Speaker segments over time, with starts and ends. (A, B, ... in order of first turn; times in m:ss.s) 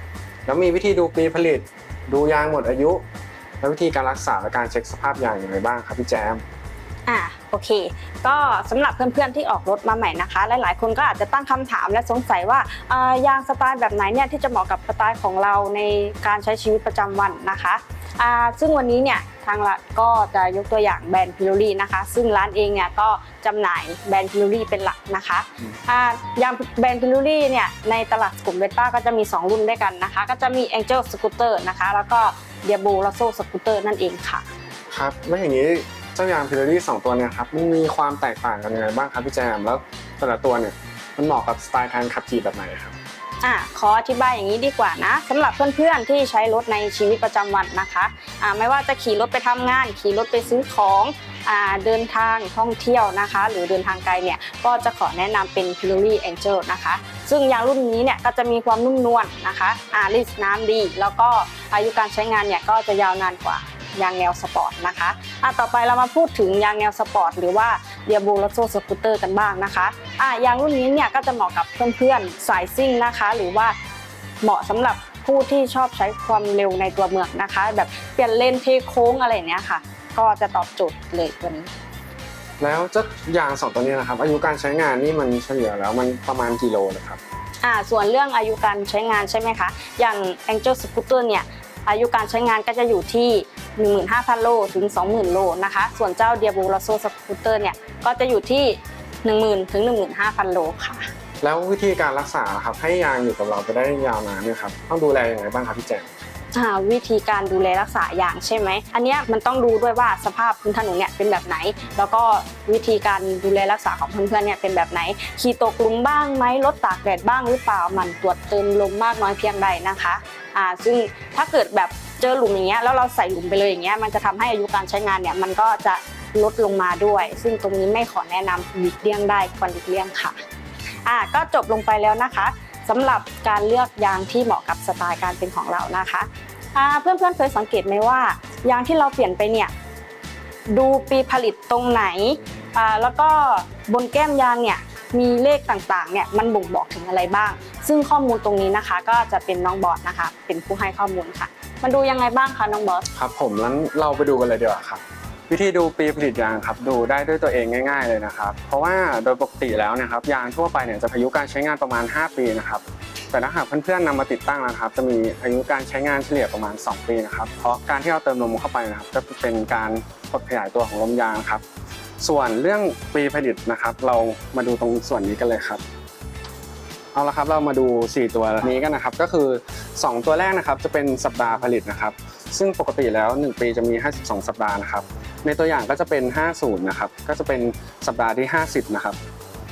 0:00.4-0:03.0 A
0:03.6-0:06.4 A
0:07.1-0:34.4 B
0:34.9-0:43.0 A
0:43.4-1:13.7 B
1:14.4-1:21.7 B
1:22.6-1:27.2 A
1:27.6-1:41.1 B
1:41.4-1:46.1 A
1:46.5-2:10.4 B
2:11.0-2:19.7 B
2:20.7-2:33.0 B
2:33.1-2:51.6 A
2:52.2-2:55.8 A
2:57.1-3:09.2 A